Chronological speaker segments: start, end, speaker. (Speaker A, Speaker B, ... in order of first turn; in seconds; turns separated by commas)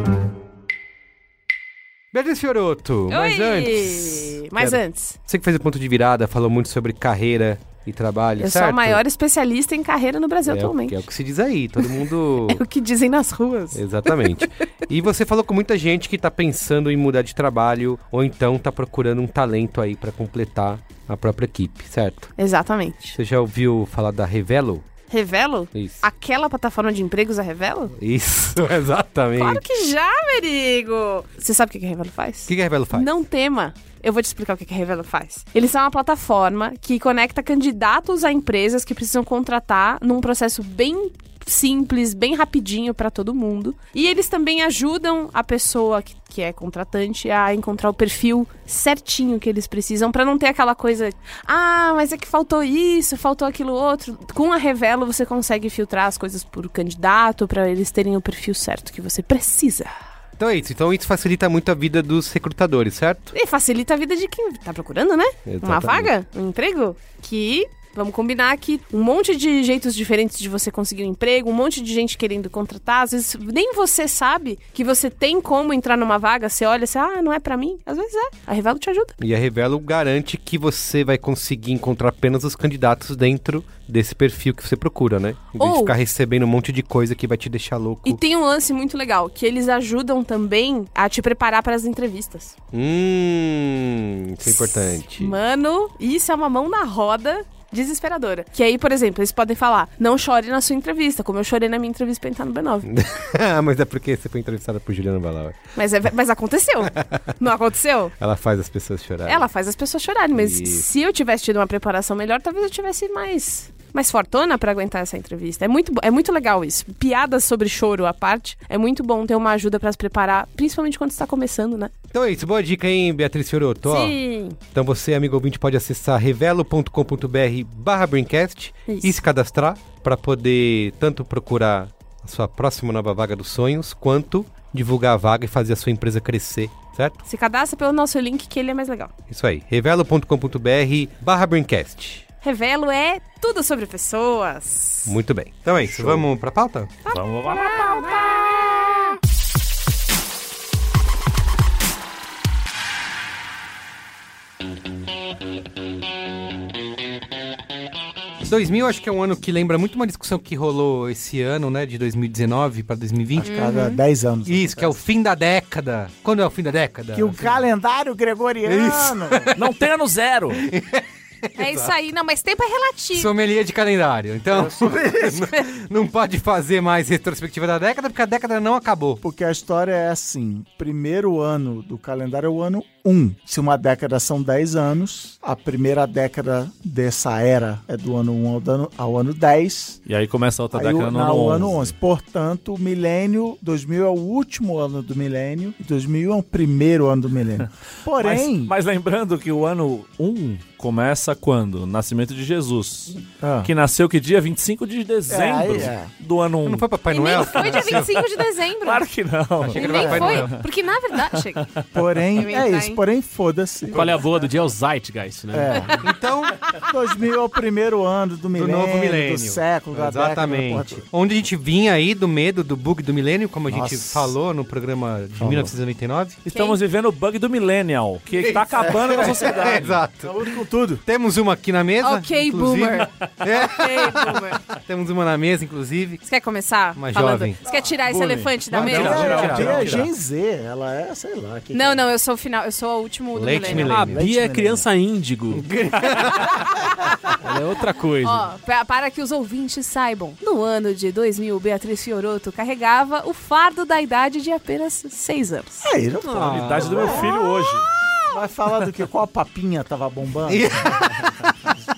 Speaker A: 2.1-9.0, Speaker B: 3.1-5.2, Speaker B: 8.4-11.0, Speaker A: 10.4-12.6, Speaker B: 12.5-14.3, Speaker A: 13.7-22.3, Speaker B: 22.4-23.2, Speaker A: 23.2-24.9, Speaker B: 25.1-27.9, Speaker A: 25.7-26.0, Speaker A: 27.9-29.6, Speaker B: 29.4-59.9, Speaker A: 32.5-33.1, Speaker A: 60.4-63.3, Speaker B: 63.3-79.2, Speaker A: 65.5-66.1, Speaker A: 79.2-88.2, Speaker B: 85.6-86.0, Speaker B: 88.0-92.5, Speaker A: 92.7-95.3, Speaker B: 94.5-102.9, Speaker A: 102.9-105.6, Speaker B: 105.8-108.1, Speaker A: 108.2-109.5, Speaker B: 109.3-121.9, Speaker A: 110.3-110.9, Speaker A: 122.1-124.2, Speaker B: 123.8-124.6, Speaker A: 124.7-137.2, Speaker B: 128.9-129.1, Speaker B: 137.2-139.1, Speaker A: 139.3-142.3, Speaker B: 142.4-145.2, Speaker A: 145.1-146.9, Speaker C: 145.9-146.2, Speaker B: 147.1-148.8, Speaker D: 147.1-148.1, Speaker A: 158.4-163.6, Speaker C: 163.4-165.0, Speaker B: 163.4-164.0, Speaker A: 164.5-167.6, Speaker C: 167.1-169.5, Speaker A: 168.7-169.8, Speaker D: 169.6-170.7, Speaker A: 170.6-171.9, Speaker B: 171.6-173.3, Speaker A: 173.1-179.2, Speaker C: 174.5-175.5, Speaker C: 179.2-190.0, Speaker D: 190.1-191.9, Speaker C: 190.7-198.7, Speaker D: 198.2-208.2, Speaker C: 203.4-203.7, Speaker C: 205.3-206.1, Speaker A: 206.7-208.2, Speaker B: 207.1-209.1, Speaker D: 208.8-210.6, Speaker A: 209.6-210.6, Speaker B: 209.7-211.7, Speaker C: 209.9-210.4, Speaker C: 211.9-214.3, Speaker B: 212.3-213.0, Speaker E: 213.9-216.0, Speaker A: 213.9-214.5, Speaker C: 215.5-216.0, Speaker A: 216.0-216.7, Speaker C: 216.7-221.1, Speaker A: 218.5-226.4, Speaker C: 223.7-224.4, Speaker C: 225.4-225.8, Speaker D: 226.4-230.0, Speaker B: 226.5-226.8, Speaker A: 228.3-230.4, Speaker C: 229.0-229.5, Speaker C: 230.2-231.0, Speaker A: 231.0-236.2, Speaker B: 232.0-234.6, Speaker B: 236.2-239.7, Speaker A: 237.0-237.6, Speaker D: 238.0-238.6, Speaker A: 238.7-240.1, Speaker C: 238.8-242.1, Speaker D: 239.1-239.8, Speaker E: 239.3-239.9, Speaker B: 241.7-244.0, Speaker A: 243.3-244.2, Speaker C: 243.7-244.9, Speaker E: 243.7-245.7, Speaker A: 245.5-246.6, Speaker E: 247.4-248.5, Speaker B: 248.2-255.9, Speaker C: 255.8-257.4, Speaker E: 256.4-257.1, Speaker D: 256.4-257.9, Speaker A: 256.5-257.1, Speaker C: 258.3-261.0, Speaker A: 260.5-261.7